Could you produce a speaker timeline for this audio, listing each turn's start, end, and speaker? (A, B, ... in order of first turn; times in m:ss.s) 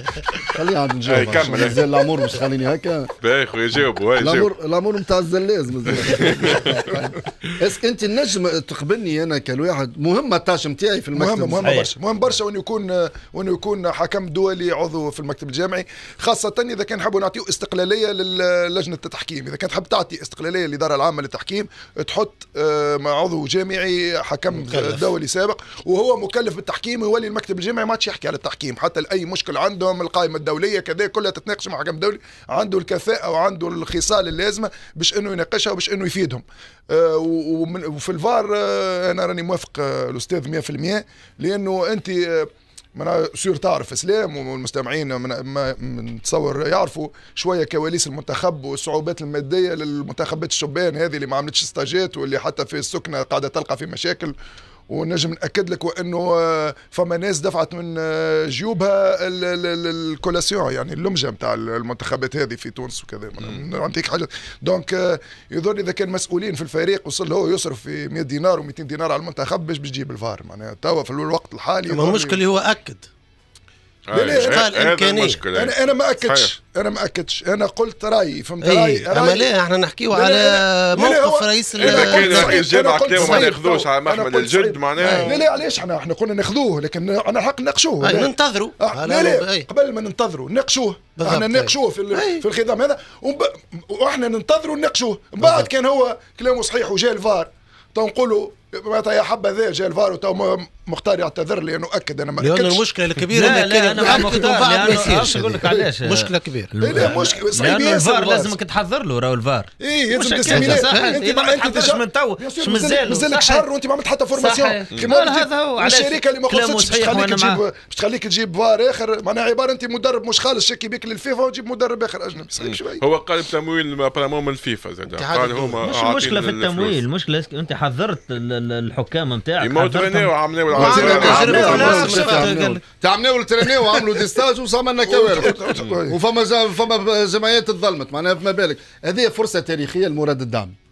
0:00.5-0:03.1 A
0:01.0-0:01.8 B
0:03.2-0:04.5 B
0:04.2-0:11.9 A
0:05.9-0:07.1 B
0:11.1-0:54.3 C
0:11.6-0:11.9 D
0:24.5-0:25.1 E
0:54.9-1:12.4 C
1:11.9-1:13.1 E
1:14.1-1:16.5 B
1:14.1-1:14.6 C
1:14.2-1:15.4 E
1:15.5-1:19.5 C
1:18.6-1:23.5 E
1:20.1-1:42.8 C
1:21.8-1:25.4 B
1:25.0-1:25.4 E
1:28.0-1:29.7 E
1:31.2-1:32.4 E
1:35.4-1:35.7 E
1:42.4-1:47.2 E
1:43.3-1:53.6 D
1:46.8-1:48.6 C
1:49.8-2:03.0 C
1:50.4-1:51.2 E
1:54.3-1:57.6 D
2:02.6-2:07.0 B
2:05.1-2:05.8 E
2:05.8-2:10.3 D
2:09.6-2:12.2 B
2:10.8-2:12.8 E
2:10.8-2:20.8 A
2:10.8-2:11.8 C
2:10.9-2:12.6 D
2:15.0-2:16.2 C